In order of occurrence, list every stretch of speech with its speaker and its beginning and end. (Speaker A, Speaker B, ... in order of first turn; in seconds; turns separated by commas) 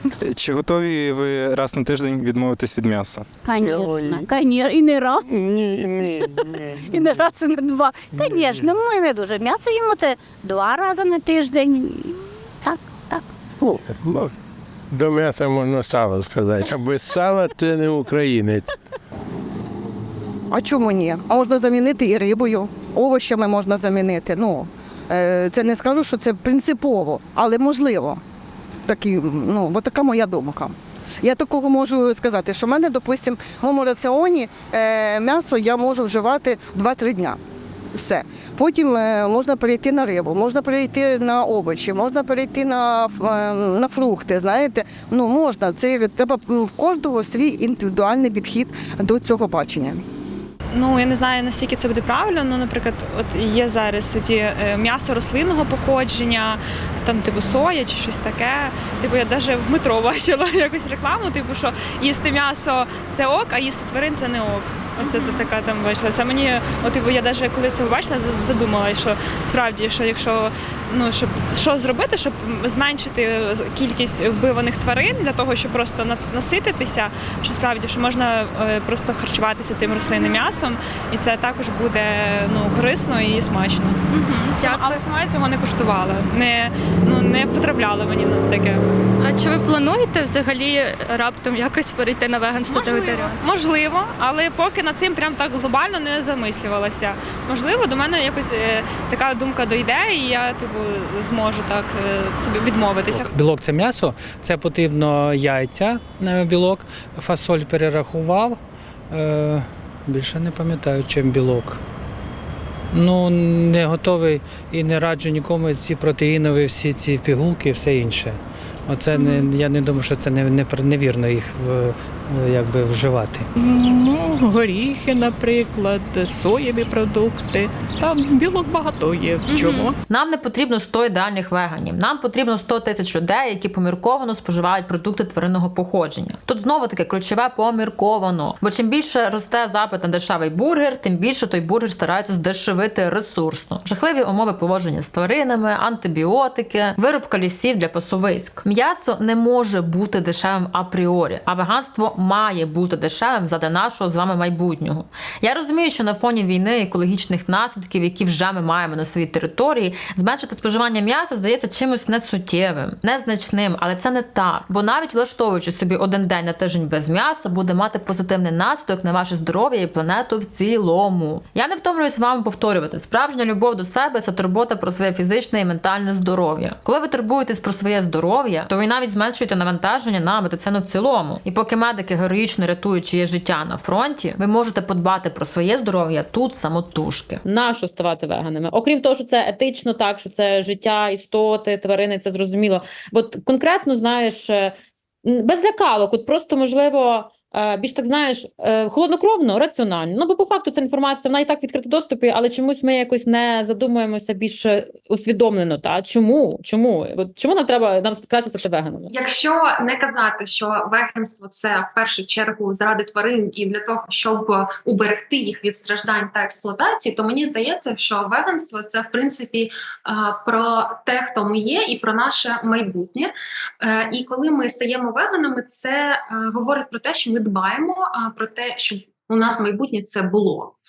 Speaker A: 0.2-3.2, Speaker B: 3.4-5.5, Speaker C: 5.4-6.1, Speaker B: 6.0-13.3, Speaker C: 13.6-14.3, Speaker C: 14.9-18.7, Speaker D: 20.5-28.2, Speaker D: 28.9-37.4, Speaker D: 37.9-50.0, Speaker E: 50.7-84.0, Speaker F: 65.0-65.5, Speaker F: 80.0-80.4, Speaker F: 84.1-85.0, Speaker E: 84.6-88.8, Speaker F: 89.2-93.4, Speaker E: 92.7-103.3, Speaker G: 103.2-108.6, Speaker G: 109.1-111.8, Speaker G: 112.9-123.5, Speaker F: 119.2-119.5, Speaker H: 123.5-130.0, Speaker F: 129.5-129.9, Speaker I: 130.1-209.1, Speaker J: 209.1-230.8